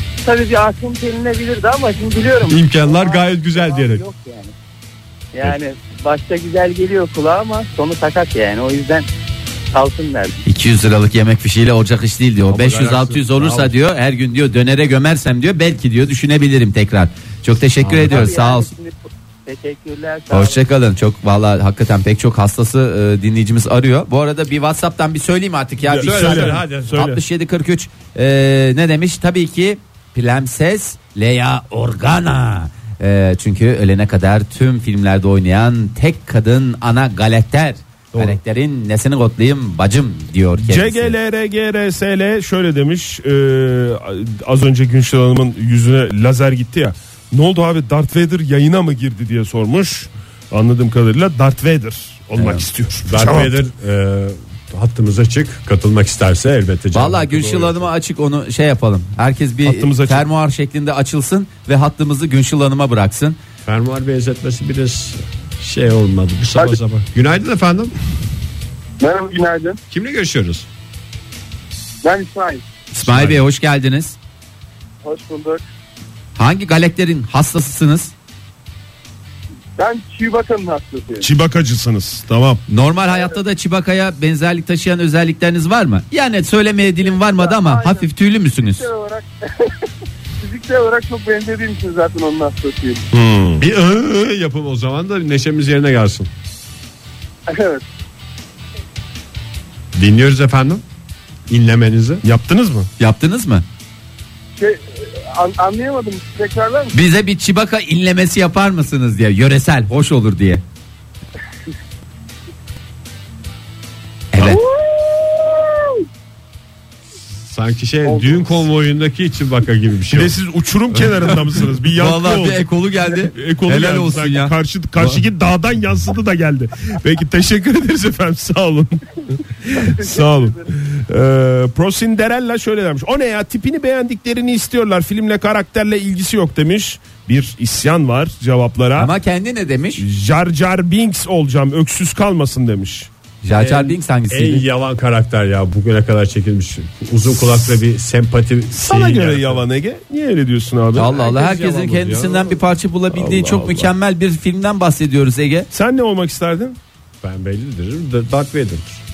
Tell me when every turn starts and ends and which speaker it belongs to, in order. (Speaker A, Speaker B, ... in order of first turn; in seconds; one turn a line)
Speaker A: 0.2-4.5
Speaker B: 2.5-4.0
Speaker A: 5.3-9.1
Speaker A: 9.7-10.4
Speaker C: 10.4-18.7
Speaker B: 12.5-13.8
Speaker B: 17.9-18.2
Speaker A: 18.0-20.6
Speaker C: 20.3-41.1
Speaker B: 25.8-27.0
Speaker D: 26.0-27.2
Speaker D: 40.6-53.5
Speaker B: 52.4-57.9
Speaker C: 56.9-63.4
Speaker D: 59.6-60.3
Speaker B: 63.6-67.9
Speaker E: 69.0-69.8
Speaker B: 69.9-70.7
Speaker E: 72.0-72.7
Speaker C: 72.9-74.2
Speaker B: 73.0-73.4
Speaker E: 75.0-75.6
Speaker C: 76.4-78.1
Speaker E: 79.8-81.3
Speaker D: 81.2-82.6
Speaker C: 82.7-88.9
Speaker E: 87.1-89.7
Speaker E: 90.4-93.0
Speaker D: 93.1-93.6
Speaker B: 93.6-96.3
Speaker E: 97.5-97.8
Speaker B: 99.9-100.8
Speaker B: 101.5-102.2
Speaker D: 102.2-102.9
Speaker C: 103.0-103.6
Speaker E: 104.6-106.9
Speaker C: 106.9-110.6
Speaker C: 114.3-114.6
Speaker E: 114.7-115.7
Speaker B: 117.5-120.4
Speaker E: 118.1-118.4
Speaker D: 120.1-122.7
Speaker B: 120.9-121.4
Speaker C: 122.0-125.2
Speaker D: 123.3-139.1
Speaker E: 129.8-130.6
Speaker C: 139.0-140.0
Speaker D: 140.0-143.1
Speaker C: 143.4-144.7
Speaker B: 143.6-149.6
Speaker D: 148.8-151.1
Speaker C: 151.0-155.7
Speaker B: 151.0-152.6
Speaker D: 153.1-153.9
Speaker D: 155.7-156.8
Speaker B: 157.2-159.0